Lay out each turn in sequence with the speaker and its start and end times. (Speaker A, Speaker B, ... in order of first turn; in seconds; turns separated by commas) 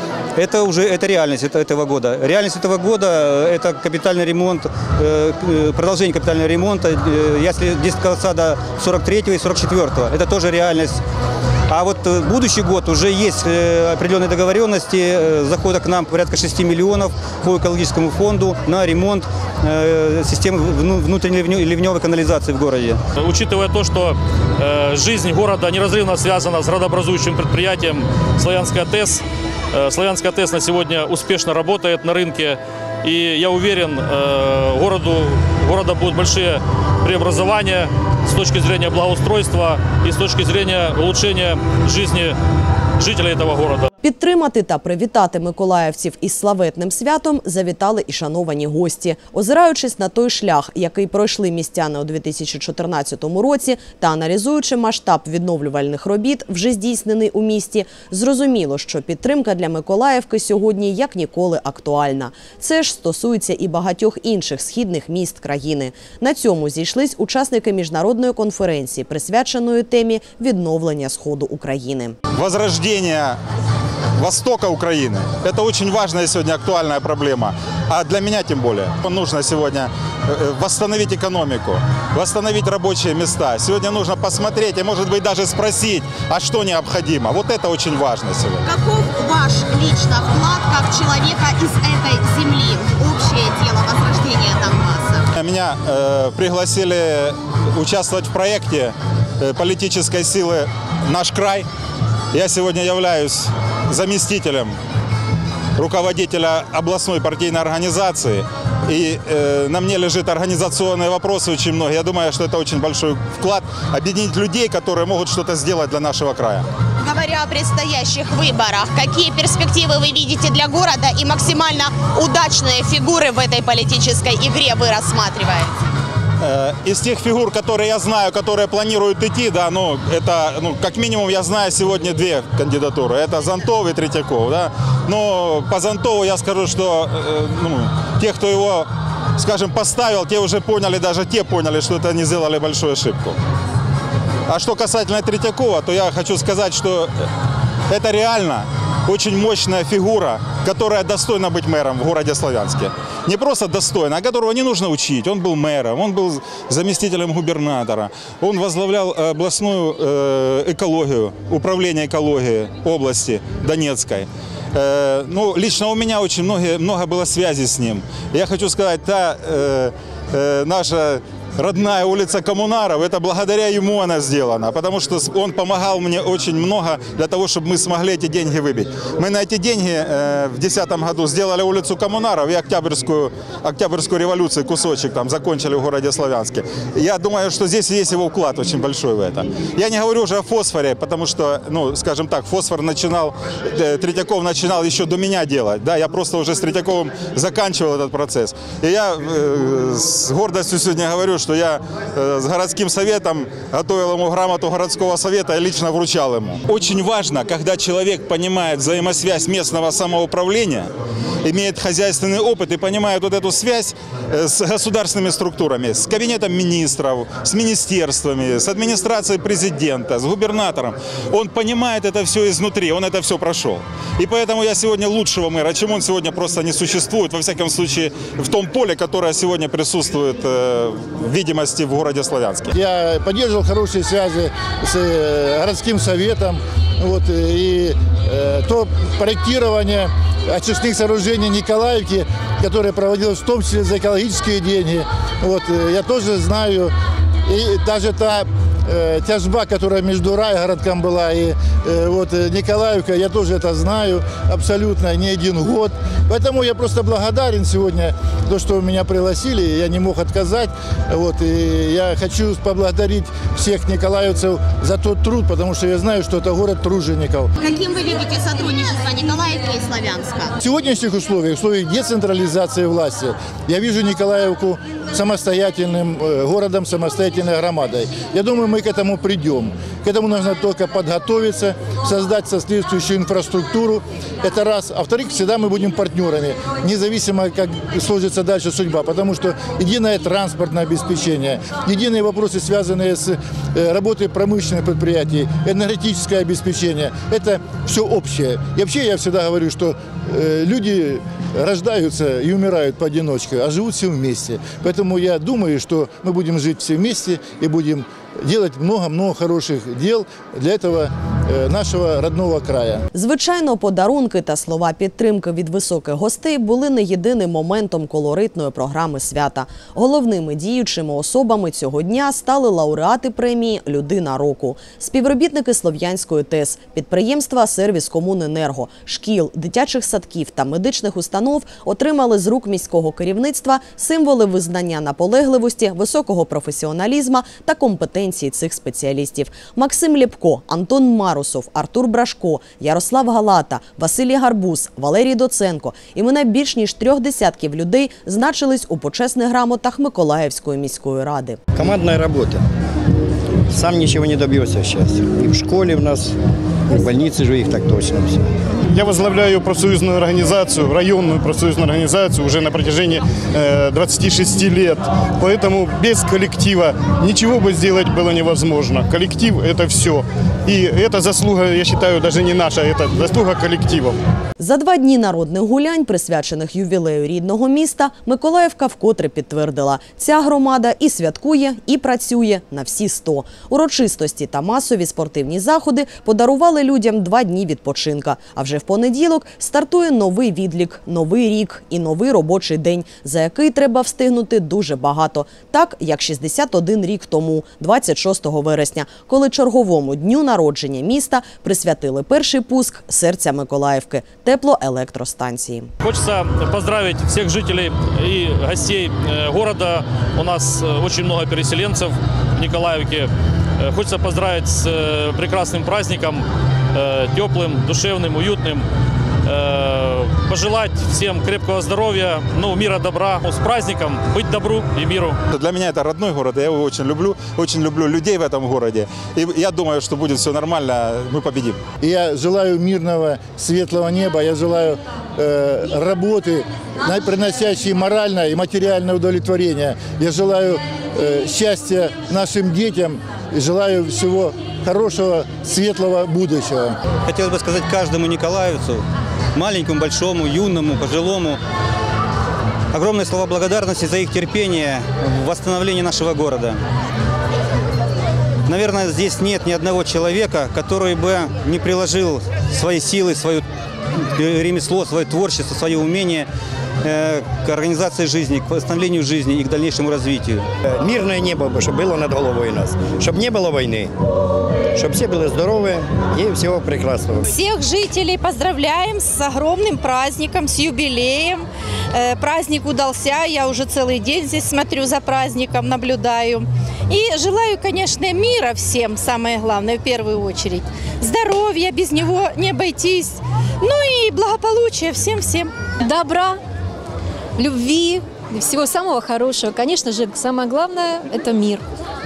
Speaker A: 0.3-11.0, Speaker A: 11.7-23.0, Speaker B: 23.2-42.4, Speaker B: 43.0-43.9, Speaker C: 44.0-72.2, Speaker D: 72.3-73.4, Speaker D: 74.2-88.6, Speaker E: 88.6-95.2, Speaker D: 95.3-101.7, Speaker D: 102.3-104.7, Speaker D: 105.8-116.7, Speaker E: 117.0-125.7, Speaker D: 126.4-143.4, Speaker D: 144.5-147.1, Speaker D: 147.9-210.9, Speaker D: 211.4-232.7, Speaker F: 232.7-246.9, Speaker F: 247.4-267.5, Speaker E: 267.6-270.5, Speaker F: 270.6-313.0, Speaker C: 313.1-351.6, Speaker G: 351.7-352.6, Speaker G: 353.7-356.4, Speaker G: 356.9-358.4, Speaker H: 358.9-374.2, Speaker C: 374.6-405.9, Speaker B: 406.0-418.9, Speaker B: 419.4-425.4, Speaker D: 425.5-431.8, Speaker F: 432.0-446.9, Speaker A: 447.2-449.0, Speaker A: 449.5-451.6, Speaker A: 452.9-456.8, Speaker A: 458.7-463.6, Speaker A: 464.3-466.5, Speaker A: 467.0-470.6, Speaker G: 470.9-474.1, Speaker G: 474.9-477.5, Speaker I: 477.5-495.7, Speaker J: 496.0-496.6, Speaker J: 497.6-501.8